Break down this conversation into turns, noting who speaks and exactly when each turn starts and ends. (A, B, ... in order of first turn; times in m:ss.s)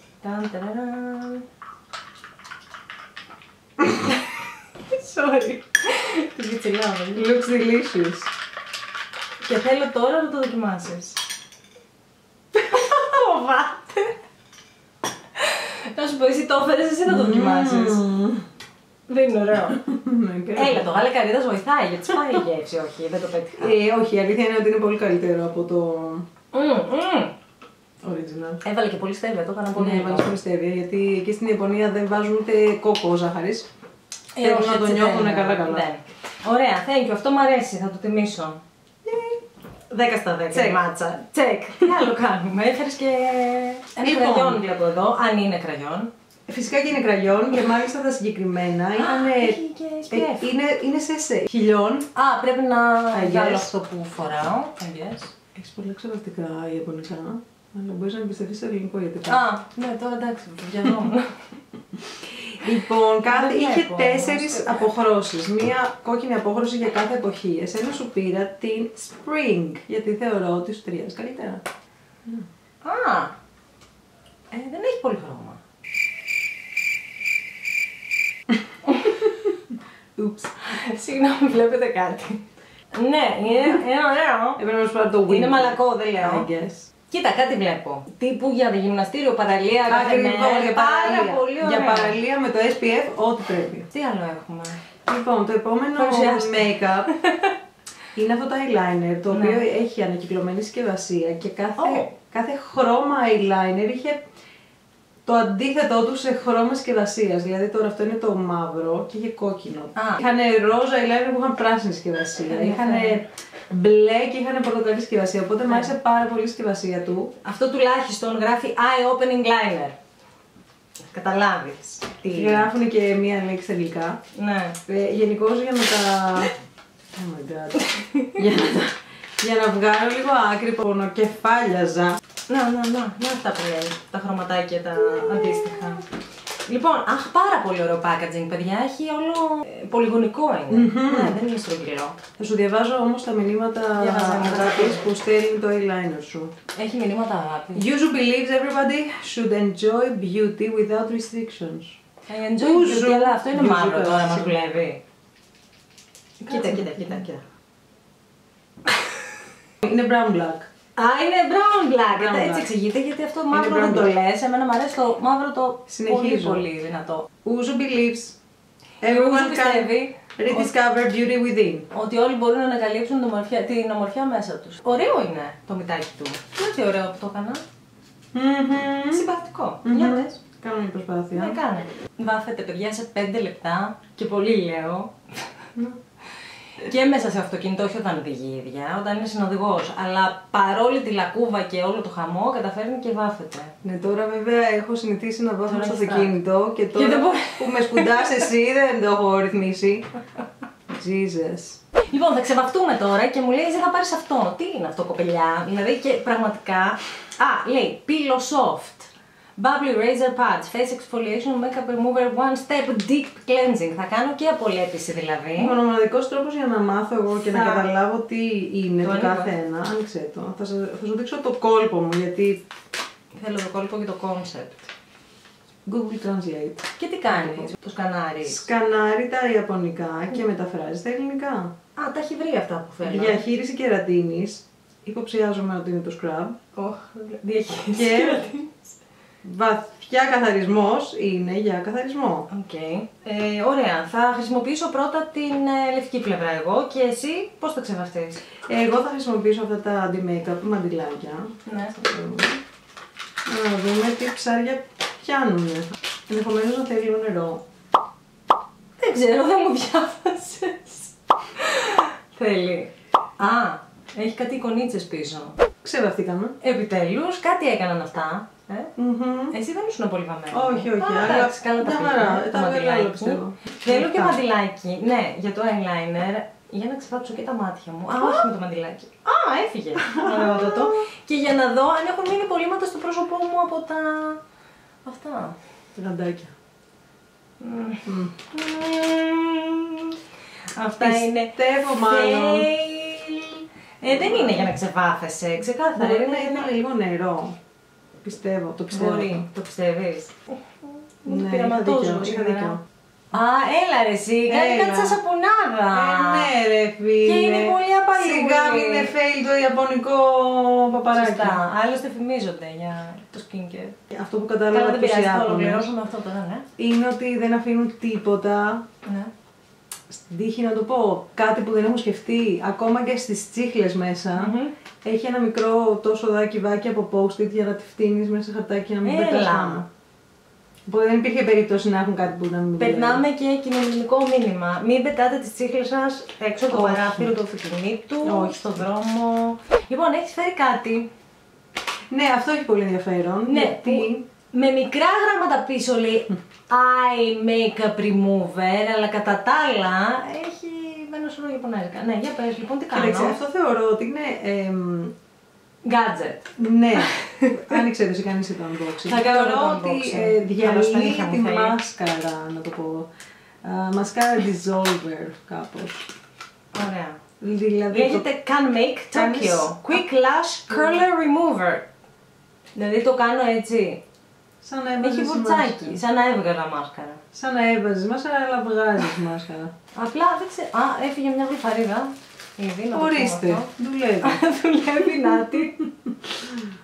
0:00.2-0:01.4 A
0:03.8-0:04.4 A
0:04.9-0:07.3 A
0:07.1-0:08.3 B
0:09.4-0:11.2 A
0:12.6-0:14.1 A
0:15.4-0:18.0 A
0:17.0-0:18.4 B
0:19.1-0:19.8 A
0:19.7-0:21.0 B
0:20.5-0:23.7 A
0:23.6-0:26.2 B
0:26.5-0:27.4 A
0:28.0-0:28.6 B
0:28.6-0:30.3 A
0:29.7-0:33.7 B
0:34.3-0:38.6 A
0:34.4-0:35.9 B
0:39.0-0:39.4 B
0:39.9-0:46.1 A
0:40.5-0:40.8 B
0:44.0-0:44.6 B
0:46.5-0:49.6 B
0:49.0-0:50.5 A
0:50.1-0:52.1 B
0:52.1-0:55.3 A
0:53.1-0:53.7 B
0:55.5-0:59.4 B
0:59.2-1:01.4 A
1:02.2-1:11.6 B
1:03.2-1:04.9 A
1:12.8-1:13.3 A
1:14.5-1:15.6 A
1:18.8-1:19.4 A
1:20.2-1:20.6 B
1:20.6-1:24.6 A
1:24.6-1:26.9 B
1:25.3-1:26.5 A
1:27.1-1:32.2 A
1:29.8-1:33.9 B
1:33.9-1:34.8 A
1:35.0-1:37.1 B
1:36.0-1:37.5 A
1:38.1-1:44.2 B
1:39.3-1:39.6 A
1:41.8-1:42.1 A
1:45.2-1:57.3 B
1:49.9-1:50.2 A
1:52.4-1:53.2 A
1:57.4-2:00.0 A
2:01.1-2:02.7 A
2:02.3-2:04.2 B
2:04.3-2:04.8 A
2:04.8-2:06.5 B
2:07.1-2:12.2 B
2:07.8-2:08.4 A
2:12.5-2:16.0 A
2:16.6-2:22.2 A
2:20.7-2:21.4 B
2:22.4-2:26.5 B
2:24.0-2:25.0 A
2:26.7-2:27.9 A
2:27.7-2:32.0 B
2:32.3-2:35.0 A
2:32.6-2:34.6 B
2:36.4-2:37.4 A
2:36.5-2:37.2 B
2:39.8-2:40.7 B
2:41.0-2:47.3 A
2:42.1-2:42.7 B
2:43.5-2:44.1 B
2:45.9-2:46.6 B
2:47.4-2:48.4 B
2:49.0-2:50.7 A
2:49.0-2:51.9 B
2:51.9-2:57.6 A
2:58.3-2:59.3 B
2:59.1-3:00.3 A
2:59.8-3:01.6 B
3:01.3-3:05.1 A
3:06.8-3:13.8 A
3:13.8-3:20.1 B
3:15.7-3:16.3 A
3:16.9-3:18.2 A
3:20.9-3:21.8 B
3:22.1-3:35.7 A
3:35.6-3:42.6 B
3:37.5-3:37.9 A
3:39.0-3:39.5 A
3:43.3-3:44.9 A
3:45.8-3:47.7 B
3:47.0-3:48.6 A
3:48.4-3:51.7 B
3:52.0-3:53.4 A
3:53.0-3:56.6 B
3:56.7-3:58.9 A
3:57.9-3:58.5 B
3:59.4-4:02.5 B
4:02.5-4:08.4 A
4:08.7-4:12.6 B
4:11.6-4:11.9 A
4:13.4-4:17.6 B
4:19.0-4:25.6 A
4:25.8-4:26.6 B
4:26.6-4:28.9 A
4:29.0-4:29.6 B
4:29.5-4:44.4 A
4:30.5-4:34.4 B
4:40.0-4:40.9 B
4:45.0-4:45.6 A
4:45.9-4:46.5 B
4:47.6-4:50.2 A
4:48.0-4:48.3 B
4:50.7-4:56.7 A
4:51.0-4:52.7 B
4:54.0-4:54.7 B
4:55.9-4:57.6 B
4:58.2-4:59.5 B
4:58.9-5:02.8 A
5:01.2-5:02.8 B
5:03.3-5:06.5 A
5:04.5-5:05.2 B
5:05.9-5:11.6 B
5:07.2-5:09.1 A
5:11.1-5:14.0 A
5:14.1-5:15.9 B
5:14.7-5:16.6 A
5:16.8-5:18.8 B
5:19.0-5:19.3 A
5:20.1-5:29.9 B
5:24.4-5:24.7 A
5:29.0-5:29.8 A
5:30.9-5:33.2 B
5:32.8-5:41.1 A
5:36.7-5:37.3 B
5:38.2-5:38.8 B
5:42.1-5:44.2 B
5:43.5-5:53.4 A
5:52.9-5:55.1 B
5:55.8-5:56.5 A
5:56.6-6:03.1 B
5:57.0-5:57.5 A
5:59.0-6:01.8 A
6:03.6-6:06.0 B
6:06.7-6:07.2 A
6:07.4-6:08.3 B
6:07.9-6:11.8 A
6:09.1-6:10.0 B
6:10.7-6:11.0 B
6:12.7-6:14.0 A
6:14.6-6:16.0 B
6:15.0-6:17.2 A
6:17.3-6:19.7 B
6:19.9-6:23.7 A
6:22.9-6:24.4 B
6:24.2-6:25.9 A